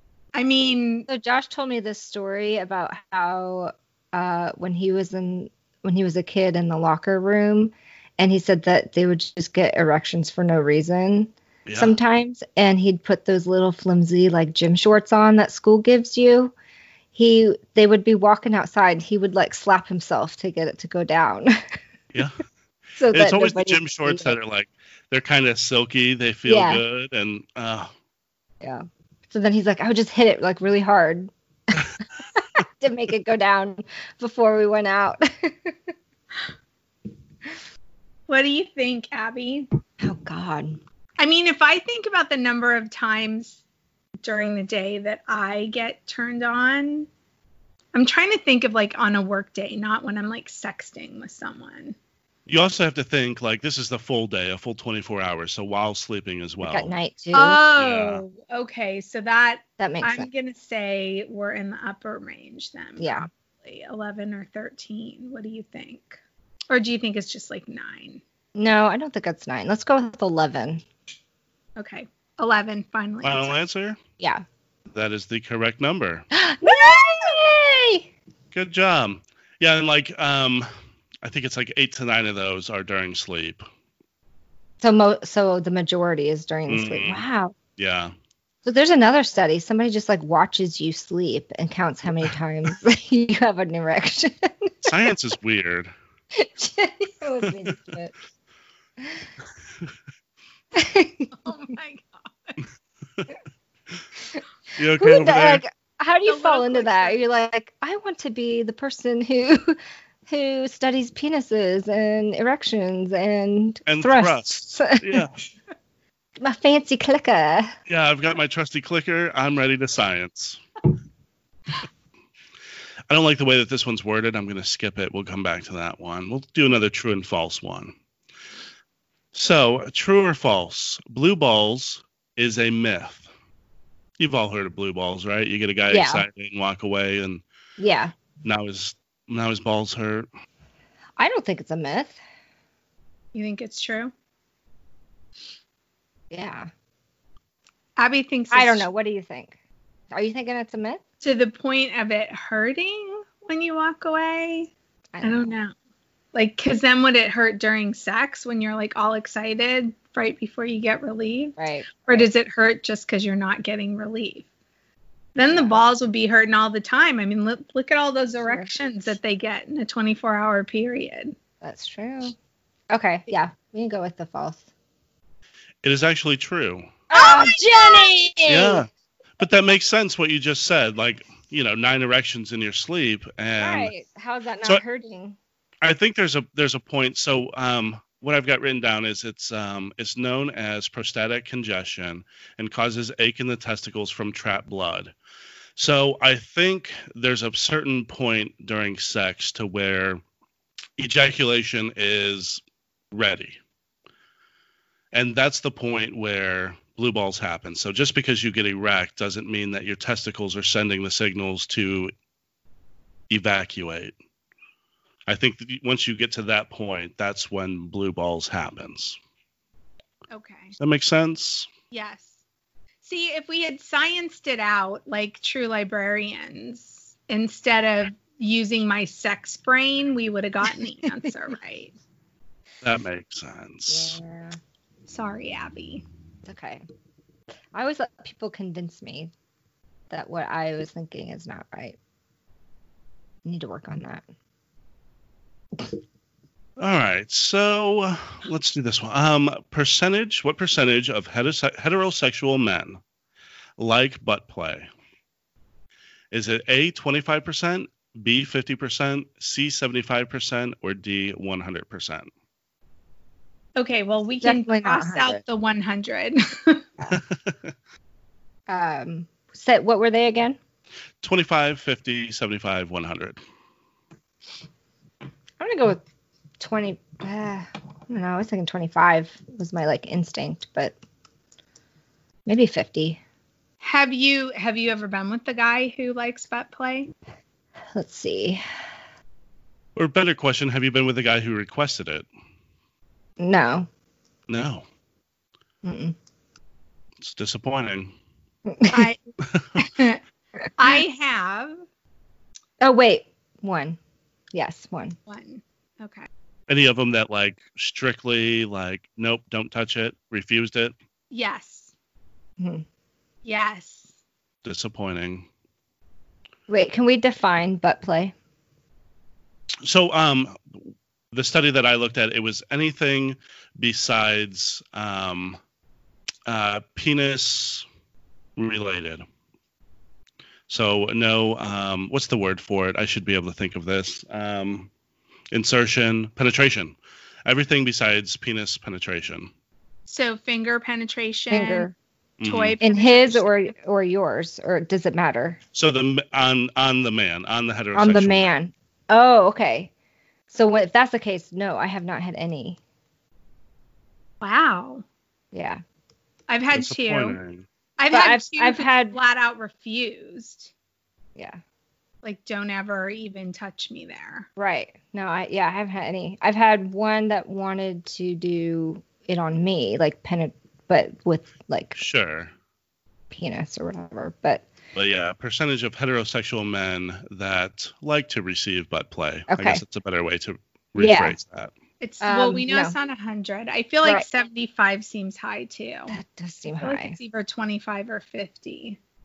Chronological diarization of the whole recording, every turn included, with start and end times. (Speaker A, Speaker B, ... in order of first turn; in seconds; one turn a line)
Speaker A: 0.3-1.1
Speaker B: 1.1-16.5
Speaker C: 11.7-12.0
Speaker B: 17.1-21.8
Speaker C: 22.1-22.4
Speaker B: 23.0-24.4
Speaker C: 23.1-27.9
Speaker B: 26.5-26.8
Speaker B: 28.6-31.8
Speaker B: 32.4-35.9
Speaker A: 38.3-39.7
Speaker B: 40.0-40.8
Speaker A: 41.2-43.6
Speaker A: 44.2-47.1
Speaker A: 47.9-52.0
Speaker C: 52.5-56.9
Speaker B: 56.6-57.6
Speaker A: 57.3-68.2
Speaker C: 57.8-58.2
Speaker B: 59.8-60.3
Speaker B: 63.0-63.3
Speaker B: 68.5-70.8
Speaker A: 71.8-73.6
Speaker C: 73.2-74.0
Speaker B: 74.2-74.4
Speaker C: 74.9-76.3
Speaker B: 76.3-78.1
Speaker C: 78.5-80.7
Speaker C: 81.2-83.7
Speaker B: 84.8-87.5
Speaker C: 86.7-87.2
Speaker C: 87.8-88.1
Speaker B: 88.7-94.9
Speaker C: 94.8-95.9
Speaker B: 96.3-98.2
Speaker C: 97.4-97.8
Speaker B: 99.0-99.3
Speaker B: 100.7-101.3
Speaker A: 101.3-102.6
Speaker C: 104.8-105.6
Speaker B: 105.0-115.2
Speaker A: 106.3-107.2
Speaker C: 113.9-115.4
Speaker B: 116.4-117.8
Speaker C: 117.9-120.6
Speaker C: 123.1-128.0
Speaker C: 129.3-133.3
Speaker C: 134.2-137.4
Speaker B: 135.9-136.2
Speaker B: 137.8-138.1
Speaker C: 138.4-140.3
Speaker B: 141.2-142.2
Speaker A: 143.3-144.1
Speaker B: 146.3-146.7
Speaker A: 148.0-148.9
Speaker B: 148.5-149.6
Speaker B: 150.1-151.0
Speaker A: 151.2-154.7
Speaker B: 155.1-155.5
Speaker A: 155.2-155.7
Speaker A: 156.3-164.5
Speaker B: 161.6-162.3
Speaker A: 165.3-171.3
Speaker B: 165.5-165.8
Speaker B: 168.4-168.7
Speaker B: 171.6-172.4
Speaker B: 172.9-174.7
Speaker C: 175.8-176.9
Speaker B: 177.1-178.8
Speaker A: 177.1-178.1
Speaker C: 178.5-178.9
Speaker C: 179.4-183.9
Speaker B: 183.6-185.4
Speaker C: 185.8-195.1
Speaker C: 195.8-200.2
Speaker C: 201.0-203.6
Speaker C: 205.1-212.1
Speaker C: 213.3-214.1
Speaker C: 215.3-219.2
Speaker A: 220.3-220.8
Speaker C: 220.8-221.7
Speaker A: 221.9-222.4
Speaker A: 223.0-231.9
Speaker C: 232.8-234.2
Speaker B: 233.9-234.6
Speaker A: 235.1-236.0
Speaker B: 236.4-236.8
Speaker B: 237.7-239.3
Speaker B: 240.1-242.0
Speaker B: 243.4-244.2
Speaker C: 246.8-253.0
Speaker C: 253.8-254.9
Speaker C: 256.3-262.3
Speaker A: 263.8-266.9
Speaker B: 264.4-265.4
Speaker C: 267.1-267.6
Speaker B: 268.7-270.6
Speaker C: 271.2-273.4
Speaker B: 275.6-276.0
Speaker B: 276.6-280.9
Speaker B: 282.5-283.2
Speaker A: 283.8-287.1
Speaker B: 287.9-288.6
Speaker C: 290.0-292.3
Speaker B: 293.4-293.9
Speaker C: 294.5-294.9
Speaker B: 295.8-296.1
Speaker C: 297.2-298.1
Speaker B: 298.7-299.1
Speaker A: 298.9-299.2
Speaker A: 299.8-300.2
Speaker A: 300.8-301.8
Speaker B: 302.8-304.0
Speaker B: 304.5-305.2
Speaker A: 305.3-306.3
Speaker C: 306.7-310.9
Speaker A: 311.3-311.9
Speaker B: 312.6-312.9
Speaker A: 313.4-314.1
Speaker C: 314.6-315.5
Speaker B: 316.7-318.3
Speaker C: 319.8-320.6
Speaker C: 321.3-325.6
Speaker C: 326.5-327.9
Speaker C: 328.6-329.2
Speaker C: 330.7-334.9
Speaker C: 335.5-339.5
Speaker A: 340.1-341.9
Speaker B: 341.5-341.9
Speaker C: 342.4-342.8
Speaker A: 342.4-343.5
Speaker B: 342.8-345.6
Speaker C: 345.7-348.5
Speaker B: 347.9-349.9
Speaker B: 350.5-352.8
Speaker A: 354.4-355.0
Speaker B: 355.5-355.8
Speaker A: 356.5-357.4
Speaker C: 356.7-357.7
Speaker A: 358.0-360.7
Speaker B: 358.1-359.2
Speaker A: 362.2-364.5
Speaker B: 364.6-372.0
Speaker C: 372.0-372.5
Speaker B: 373.3-374.7
Speaker C: 374.9-381.7
Speaker B: 379.5-379.8
Speaker B: 381.0-381.4
Speaker A: 382.0-386.1
Speaker B: 382.2-382.9
Speaker B: 386.1-387.2
Speaker A: 386.8-389.0